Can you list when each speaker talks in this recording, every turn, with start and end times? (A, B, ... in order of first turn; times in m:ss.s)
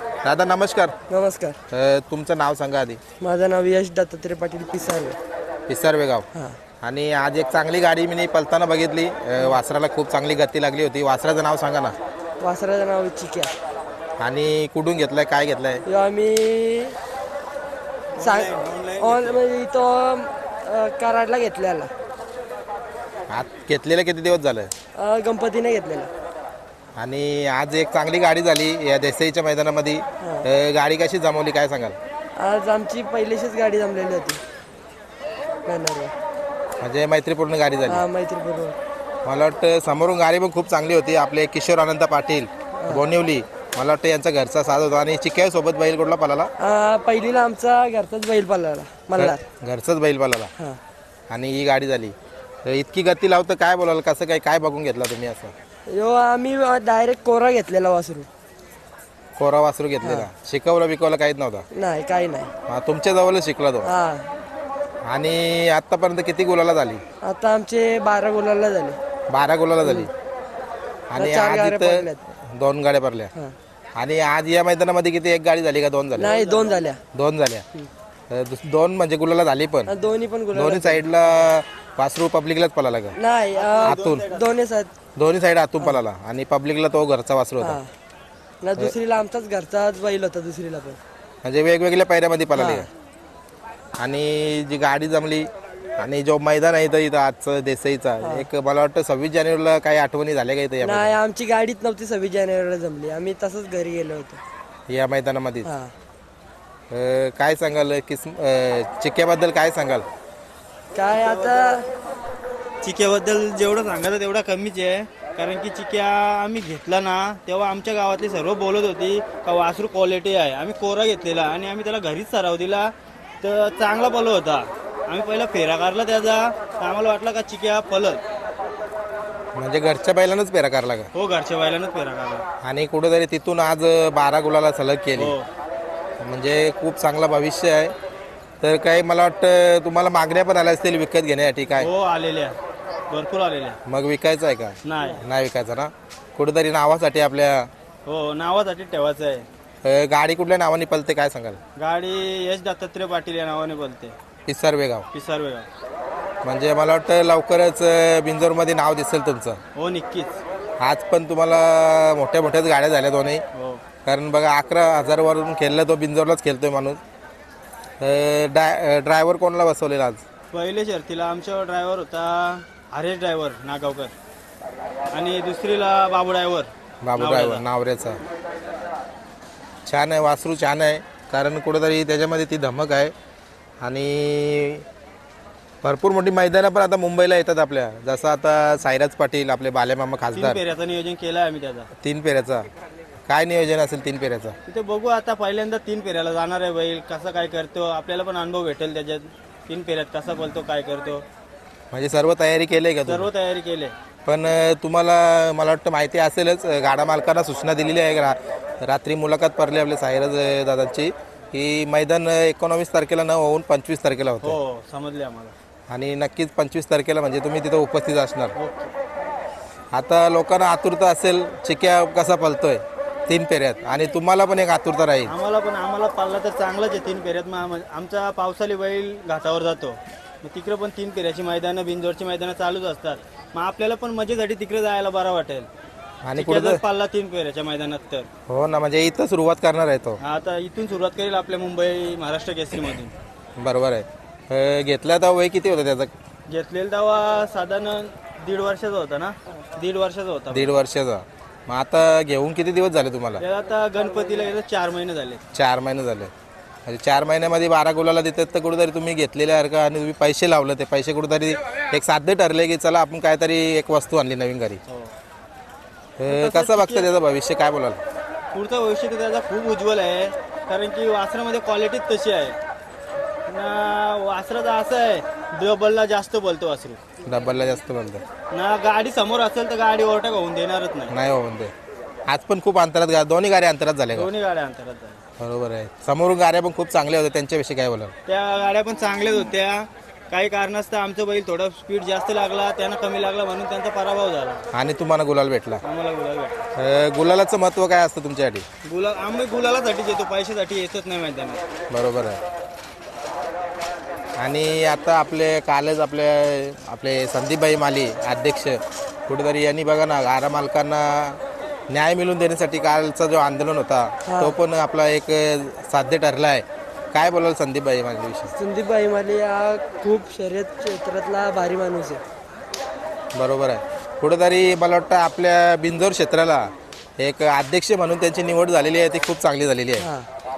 0:00.2-0:01.0 A
0:01.1-0:01.6 B
0:01.7-0:03.0 A
0:03.2-0:05.2 B
0:05.7-0:06.3 A
0:06.8-0:12.0 A
0:12.4-0:13.5 B
0:14.2-0:15.8 A
0:15.8-0:17.0 B
0:18.1-0:19.4 C
0:18.2-0:21.9 B
0:23.3-0:24.7 A
0:25.0-0:26.1 B
0:27.0-0:32.0 A
0:30.2-0:30.5 B
0:32.4-0:34.4 B
0:35.7-0:36.1 B
0:36.8-0:38.0 A
0:37.9-0:38.8 B
0:39.2-0:46.5 A
0:42.8-0:43.0 B
0:46.6-0:49.4 B
0:49.2-0:50.5 A
0:51.3-0:55.5 A
0:55.9-0:58.3 B
0:59.4-1:01.7 A
1:01.7-1:02.5 B
1:02.7-1:03.9 A
1:03.8-1:04.3 B
1:05.0-1:07.0 A
1:07.2-1:09.0 B
1:09.3-1:10.1 A
1:09.8-1:10.1 B
1:11.1-1:13.3 A
1:11.2-1:12.2 B
1:14.0-1:16.3 A
1:16.1-1:17.0 B
1:16.2-1:16.8 C
1:17.1-1:17.7 A
1:18.3-1:19.9 A
1:19.9-1:21.0 B
1:20.5-1:23.2 A
1:23.2-1:24.9 B
1:23.5-1:24.6 C
1:23.8-1:24.2 A
1:25.2-1:27.8 A
1:27.6-1:27.9 B
1:28.6-1:31.0 B
1:31.4-1:32.9 A
1:32.6-1:32.9 B
1:34.0-1:41.1 A
1:38.2-1:38.5 B
1:40.8-1:44.4 B
1:44.9-1:45.7 A
1:45.6-1:46.0 B
1:46.9-1:50.1 A
1:50.9-1:51.9 B
1:51.1-1:51.8 C
1:52.8-2:08.2 C
2:09.6-2:11.1 A
2:11.1-2:12.4 C
2:12.6-2:15.4 A
2:15.2-2:15.5 C
2:16.2-2:17.9 A
2:18.6-2:21.9 A
2:21.8-2:22.6 C
2:23.1-2:23.8 C
2:23.8-2:27.7 A
2:24.8-2:25.2 C
2:28.1-2:29.5 C
2:29.8-2:31.6 A
2:31.8-2:34.2 C
2:34.5-2:35.1 A
2:35.1-2:35.7 C
2:36.4-2:39.6 A
2:39.8-2:40.4 C
2:40.8-2:43.4 A
2:43.5-2:43.8 C
2:44.0-2:47.0 A
2:48.0-2:50.2 A
2:50.5-2:54.1 C
2:55.1-2:57.6 C
2:57.0-2:58.2 A
2:59.9-3:03.1 A
3:03.8-3:04.8 A
3:05.8-3:10.6 A
3:10.4-3:11.9 C
3:12.0-3:12.7 A
3:13.3-3:14.6 A
3:14.7-3:21.2 C
3:21.9-3:23.3 A
3:23.1-3:24.0 C
3:24.3-3:34.6 A
3:34.4-3:35.6 C
3:35.9-3:38.5 A
3:38.6-3:38.9 C
3:39.9-3:45.3 A
3:45.3-3:55.7 C
3:56.2-3:56.8 A
3:56.4-3:58.3 C
3:58.5-4:00.2 A
4:00.2-4:03.2 C
4:03.6-4:06.1 A
4:06.5-4:10.8 C
4:10.5-4:13.4 A
4:13.4-4:15.4 C
4:15.5-4:16.3 A
4:16.9-4:24.8 A
4:24.9-4:25.2 C
4:26.2-4:28.0 A
4:26.3-4:27.1 C
4:28.5-4:32.6 C
4:33.5-4:37.0 C
4:37.2-4:38.2 A
4:38.5-4:41.1 C
4:41.1-4:41.7 A
4:42.3-4:44.3 A
4:44.1-4:45.2 C
4:45.4-4:48.1 A
4:48.3-4:54.6 C
4:54.7-4:55.8 A
4:55.8-4:56.6 C
4:56.8-4:58.6 A
4:58.8-5:01.6 C
5:01.9-5:02.4 A
5:04.4-5:18.5 A
5:14.3-5:14.6 B
5:18.6-5:22.2 B
5:23.4-5:30.1 A
5:30.0-5:30.3 B